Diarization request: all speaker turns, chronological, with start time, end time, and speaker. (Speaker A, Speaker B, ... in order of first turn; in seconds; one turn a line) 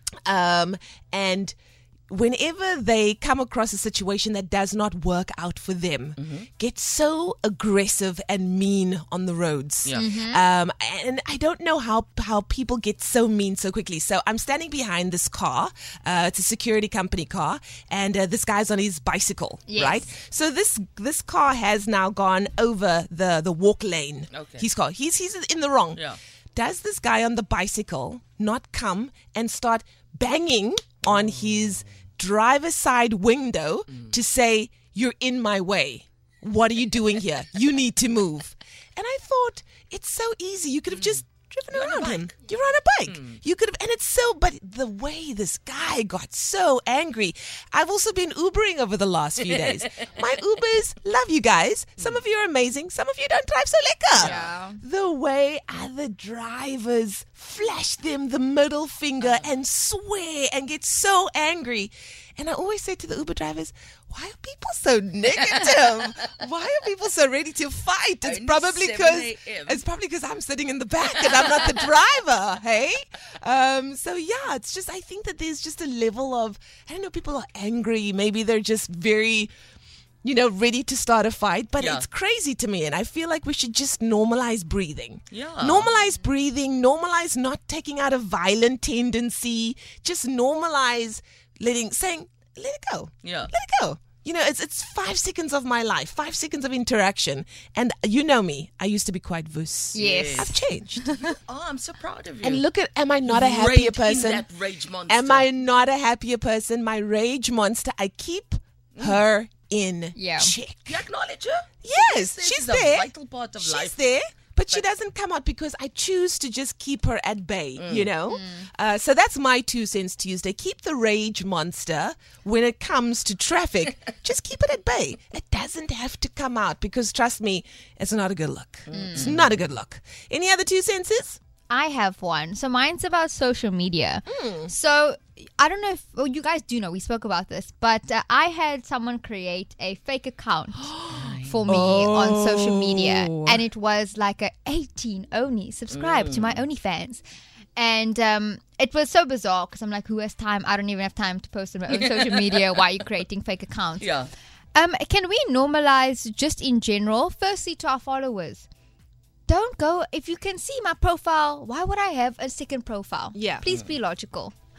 Speaker A: 0.2-1.5
Speaker A: 2.1-26.0
Speaker B: 6.2-6.5
Speaker C: 9.9-10.4
Speaker C: 19.7-20.1
Speaker B: 24.3-24.7
Speaker A: 26.5-79.5
Speaker B: 31.1-31.9
Speaker B: 33.9-34.1
Speaker B: 40.9-42.4
Speaker B: 43.0-43.4
Speaker B: 49.4-50.1
Speaker B: 54.2-54.4
Speaker C: 54.2-54.8
Speaker B: 59.2-59.5
Speaker B: 65.3-66.1
Speaker B: 68.2-69.8
Speaker B: 71.0-71.9
Speaker A: 80.2-101.1
Speaker B: 81.8-82.0
Speaker B: 85.3-85.9
Speaker B: 93.2-93.5
Speaker B: 99.9-100.6
Speaker C: 99.9-101.2
Speaker B: 101.2-102.6
Speaker A: 102.4-104.5
Speaker B: 103.2-105.5
Speaker A: 105.1-111.0
Speaker B: 109.0-109.2
Speaker C: 110.1-110.5
Speaker B: 110.9-114.0
Speaker A: 111.8-113.1
Speaker A: 113.6-131.4
Speaker B: 117.8-118.1
Speaker C: 118.3-118.7
Speaker B: 128.9-129.6
Speaker C: 128.9-129.3
Speaker C: 131.7-147.2
Speaker A: 134.3-134.7
Speaker A: 140.8-143.6
Speaker B: 141.1-141.6
Speaker B: 145.9-146.6
Speaker C: 147.8-154.1
Speaker B: 151.9-152.6
Speaker B: 154.0-154.3
Speaker C: 154.7-158.7
Speaker C: 159.5-164.5
Speaker A: 163.3-163.6